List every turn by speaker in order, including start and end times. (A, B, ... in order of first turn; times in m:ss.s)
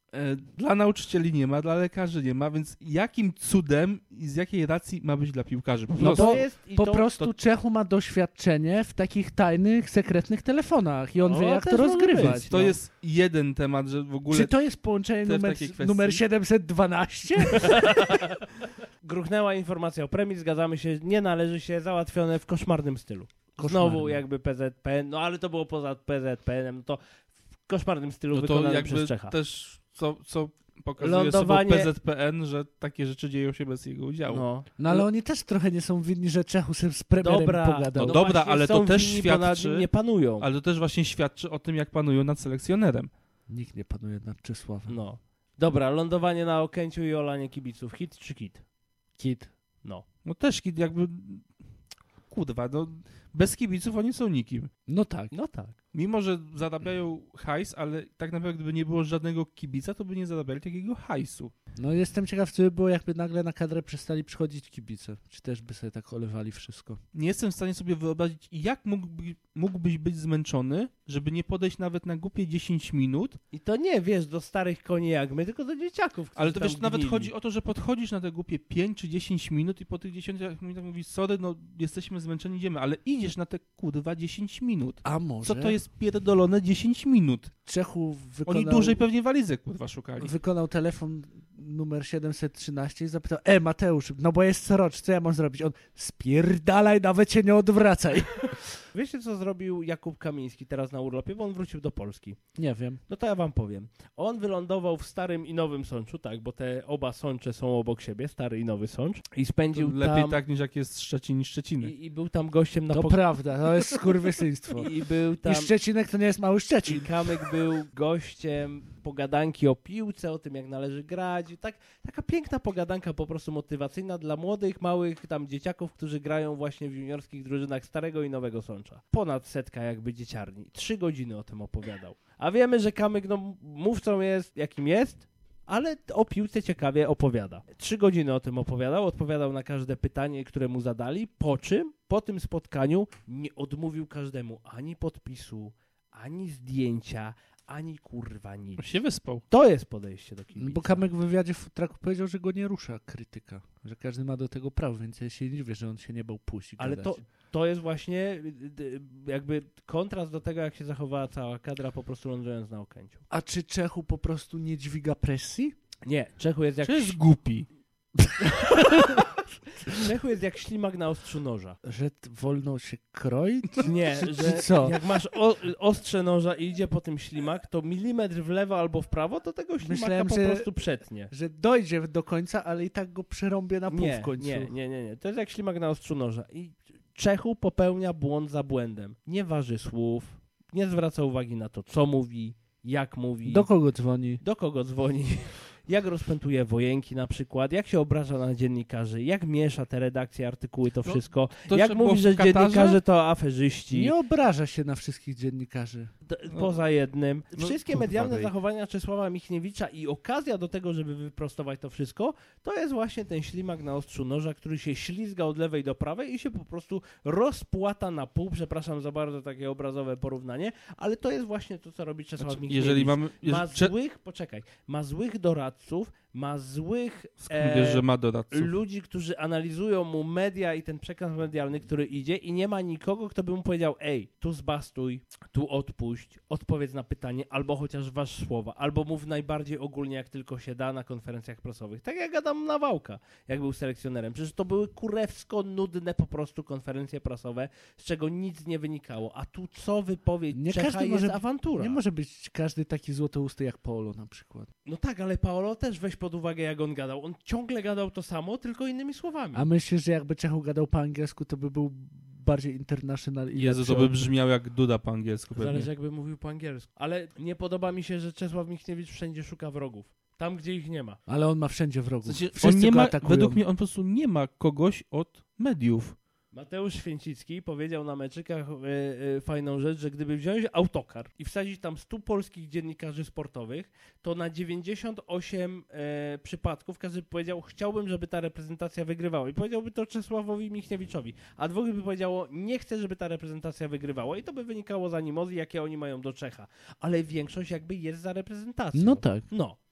0:00.1-0:06.4 A
0:06.0-0:07.3 B
0:06.0-0:12.8 C
0:11.2-0:12.5 B
0:12.2-0:14.6 A
0:14.3-0:18.0 C
0:15.2-0:16.2 A
0:17.5-0:18.5 B
0:19.0-0:27.0 B
0:23.6-0:24.2 C
0:27.7-0:29.3 B
0:28.3-0:34.4 A
0:31.0-0:31.9 B
0:34.3-0:35.1 B
0:34.8-0:38.2 C
0:37.2-0:40.5 B
0:38.0-0:39.9 A
0:40.4-0:43.1 A
0:43.5-0:44.9 C
0:44.9-0:48.6 B
0:49.2-0:49.5 C
0:50.2-0:51.5 A
0:52.3-0:54.7 A
0:54.9-0:55.3 C
0:55.3-0:55.8 B
0:55.9-1:01.5 A
1:01.8-1:07.0 C
1:07.1-1:13.4 A
1:13.5-1:17.3 B
1:16.4-1:27.5 A
1:25.0-1:25.8 C
1:27.7-1:29.0 C
1:28.5-1:30.3 A
1:30.2-1:38.8 C
1:38.9-1:42.4 B
1:42.6-1:43.0 C
1:43.1-1:50.4 B
1:49.7-1:51.9 A
1:51.8-1:53.2 B
1:52.9-1:54.9 C
1:54.7-1:55.7 B
1:55.4-1:57.2 C
1:56.9-2:28.8 B
2:28.8-2:29.4 A
2:29.5-2:31.0 B
2:30.6-2:37.2 C
2:36.8-2:43.2 B
2:43.3-2:45.8 C
2:46.0-2:47.2 B
2:46.8-2:47.7 A
2:48.5-2:49.2 B
2:48.6-2:48.9 C
2:49.9-2:51.8 B
2:51.8-2:55.0 C
2:53.8-3:01.3 B
2:59.8-3:00.7 C
3:01.3-3:04.7 C
3:03.9-3:13.7 B
3:13.5-3:14.4 C
3:14.4-3:24.1 B
3:21.0-3:23.0 A
3:23.9-3:26.1 C
3:26.3-4:12.0 B
3:27.6-3:28.5 A
3:42.4-3:43.9 A
3:47.4-3:48.8 A
4:10.5-4:14.7 C
4:14.9-4:19.7 B
4:19.5-4:24.3 C
4:23.6-4:25.9 A
4:25.6-4:31.2 B
4:31.3-4:33.6 C
4:32.3-4:36.2 A
4:36.5-4:59.8 B
4:58.9-4:59.5 C